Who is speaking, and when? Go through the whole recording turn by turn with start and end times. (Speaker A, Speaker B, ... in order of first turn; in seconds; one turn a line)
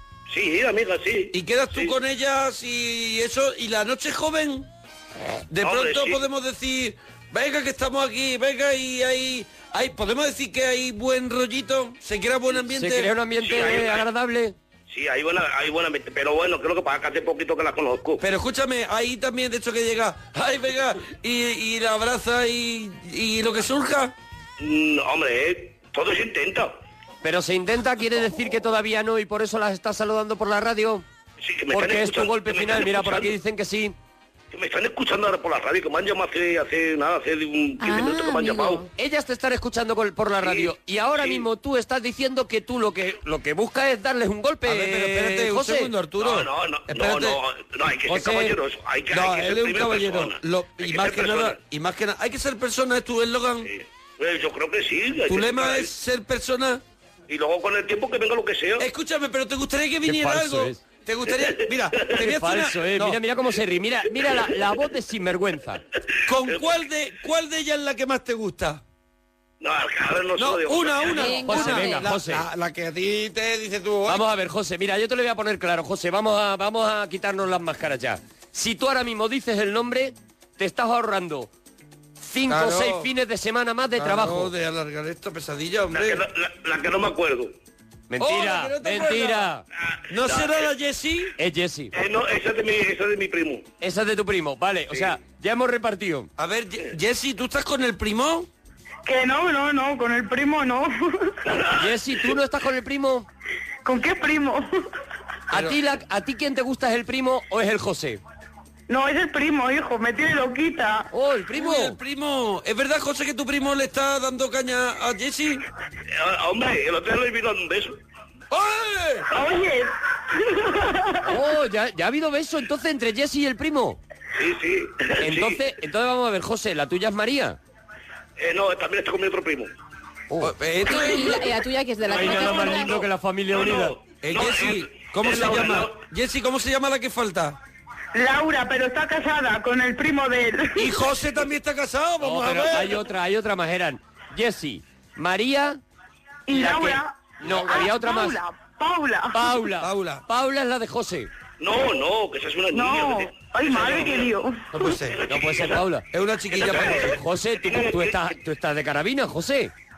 Speaker A: 0.3-1.9
Speaker B: 1.3-4.7
Speaker B: 5.5-13.1
Speaker A: 5.6-6.2
Speaker C: 12.7-14.5
Speaker A: 13.4-14.0
Speaker A: 14.9-18.2
Speaker B: 18.2-24.1
Speaker A: 24.6-26.7
Speaker C: 27.2-31.0
Speaker A: 31.4-33.3
Speaker C: 31.7-33.9
Speaker A: 34.5-38.9
Speaker D: 37.8-38.9
Speaker C: 38.9-45.9
Speaker A: 40.4-41.4
Speaker B: 44.6-47.4
Speaker A: 46.2-51.6
Speaker C: 48.1-48.4
Speaker B: 49.1-53.7
Speaker A: 53.6-55.9
Speaker B: 55.3-56.8
Speaker A: 57.3-58.9
Speaker B: 58.8-63.2
Speaker C: 60.0-60.8
Speaker A: 61.3-62.2
Speaker C: 62.2-65.8
Speaker B: 66.2-68.8
Speaker A: 66.4-66.7
Speaker A: 69.6-71.3
Speaker B: 70.4-74.2
Speaker D: 71.1-72.1
Speaker C: 71.4-72.4
Speaker C: 74.1-81.5
Speaker C: 82.2-84.5
Speaker B: 82.5-83.1
Speaker B: 84.0-86.2
Speaker A: 85.9-87.5
Speaker C: 88.1-89.6
Speaker B: 88.2-89.5
Speaker A: 89.9-90.7
Speaker B: 90.1-91.3
Speaker C: 91.4-91.9
Speaker A: 91.9-93.6
Speaker C: 93.8-96.3
Speaker B: 96.4-98.5
Speaker E: 99.0-101.3
Speaker A: 101.5-101.8
Speaker C: 101.7-103.3
Speaker E: 103.8-104.6
Speaker C: 105.5-108.2
Speaker E: 108.9-111.1
Speaker C: 111.1-112.0
Speaker B: 111.5-115.6
Speaker A: 116.1-118.0
Speaker B: 118.5-119.2
Speaker E: 119.3-121.2
Speaker C: 121.2-124.0
Speaker A: 124.4-125.6
Speaker C: 125.2-127.6
Speaker A: 128.4-129.7
Speaker B: 130.4-131.4
Speaker D: 130.8-133.0
Speaker C: 132.1-133.9
Speaker A: 132.2-136.0
Speaker B: 134.2-137.6
Speaker E: 138.1-140.9
Speaker B: 140.8-143.0
Speaker C: 142.2-145.8
Speaker E: 146.5-149.5
Speaker C: 146.5-148.4
Speaker C: 149.3-151.3
Speaker B: 149.8-150.2
Speaker A: 151.6-154.3
Speaker E: 152.7-154.6
Speaker B: 154.7-155.2
Speaker A: 155.1-155.8
Speaker C: 155.3-156.1
Speaker B: 156.1-157.2
Speaker A: 156.6-158.4
Speaker C: 156.7-159.7